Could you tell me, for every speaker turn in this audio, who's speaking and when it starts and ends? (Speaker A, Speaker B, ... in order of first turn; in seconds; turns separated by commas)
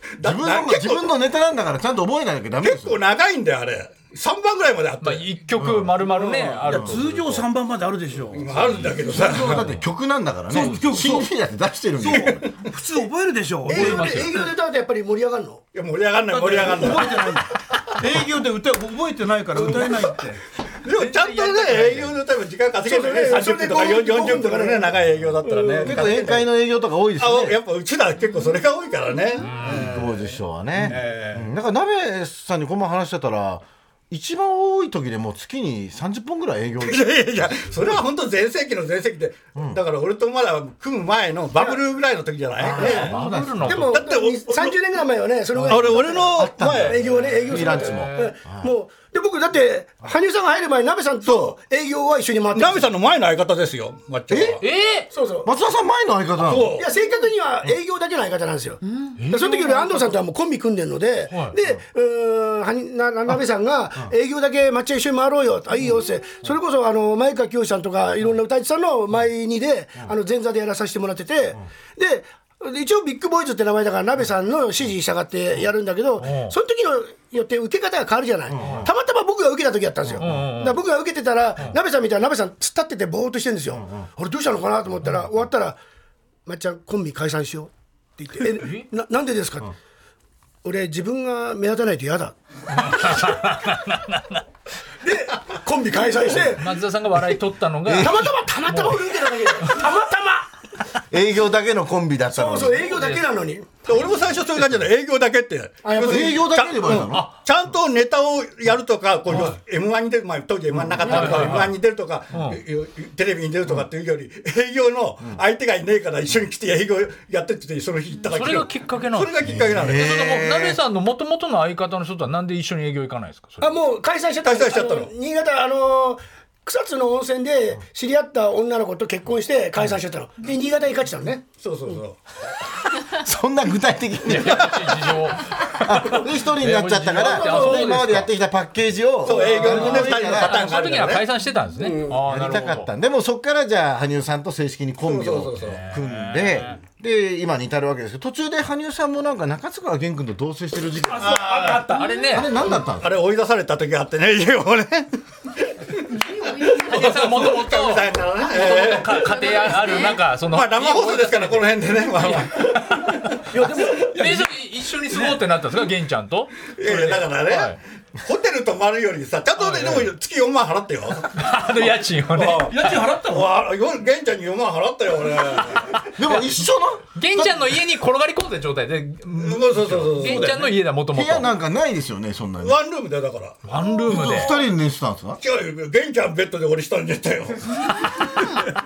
Speaker A: 0.1-1.1, Speaker B: 0.2-3.0, Speaker A: 2.6-5.3, Speaker C: 5.0-7.5, Speaker B: 5.6-6.0, Speaker A: 6.1-6.5, Speaker D: 6.6-9.5, Speaker B: 6.7-7.0, Speaker A: 8.3-9.7, Speaker B: 8.9-12.5, Speaker D: 10.5-11.3, Speaker D: 12.0-14.5, Speaker E: 13.7-15.6, Speaker C: 13.7-14.4, Speaker A: 15.7-17.4, Speaker D: 16.3-20.4, Speaker A: 20.8-26.4, Speaker C: 20.9-22.2, Speaker E: 22.8-25.9, Speaker B: 25.8-27.6, Speaker A: 27.2-30.2, Speaker C: 29.4-30.0, Speaker B: 29.6-37.1, Speaker A: 30.8-31.4, Speaker A: 36.8-43.2, Speaker B: 39.5-39.8, Speaker B: 42.6-43.8, Speaker E: 42.8-52.9, Speaker C: 42.9-44.0, Speaker A: 43.9-44.8, Speaker A: 45.7-47.4, Speaker B: 45.7-48.7, Speaker C: 47.5-48.3, Speaker A: 51.2-51.5, Speaker A: 52.5-54.6, Speaker B: 54.3-54.6, Speaker C: 54.6-55.1, Speaker E: 55.1-55.5, Speaker B: 55.4-56.8, Speaker A: 56.4-56.9, Speaker E: 56.8-85.8, Speaker C: 59.2-60.1, Speaker C: 76.2-76.5, Speaker B: 78.5-78.9, Speaker C: 78.6-78.9, Speaker B: 80.1-80.5, Speaker C: 80.2-80.8, Speaker B: 83.7-84.1, Speaker E: 86.5-89.7, Speaker C: 88.4-88.9, Speaker E: 90.6-93.3, Speaker C: 92.7-94.4, Speaker E: 95.0-96.7, Speaker C: 96.4-99.8, Speaker B: 97.8-98.1, Speaker E: 97.9-100.5, Speaker B: 101.1-103.1, Speaker E: 102.3-104.0, Speaker C: 102.9-103.2, Speaker A: 103.8-120.1, Speaker E: 105.8-106.4, Speaker B: 106.0-107.3, Speaker C: 111.0-111.8, Speaker C: 112.3-112.6, Speaker C: 118.2-123.8, Speaker B: 119.7-120.8, Speaker E: 123.6-131.4, Speaker A: 124.4-125.1, Speaker A: 131.6-132.2, Speaker B: 132.9-140.7, Speaker C: 134.2-138.3, Speaker E: 137.3-138.0, Speaker A: 139.2-141.3, Speaker C: 139.6-142.9, Speaker B: 142.2-151.4, Speaker A: 145.1-145.8, Speaker C: 145.6-146.8, Speaker D: 151.0-152.3, Speaker A: 151.1-152.0, Speaker C: 151.7-152.6, Speaker B: 152.3-153.1, Speaker A: 153.0-163.4, Speaker C: 156.6-167.8, Speaker D: 163.5-165.4, Speaker A: 166.7-171.4, Speaker C: 169.6-170.1, Speaker C: 171.2-173.2, Speaker A: 172.3-176.1, Speaker D: 172.6-173.6, Speaker B: 176.1-177.1, Speaker C: 176.2-181.5, Speaker A: 179.3-180.7, Speaker B: 181.1-182.8, Speaker A: 182.6-183.6, Speaker C: 183.6-184.6, Speaker B: 184.1-185.4, Speaker A: 185.4-188.6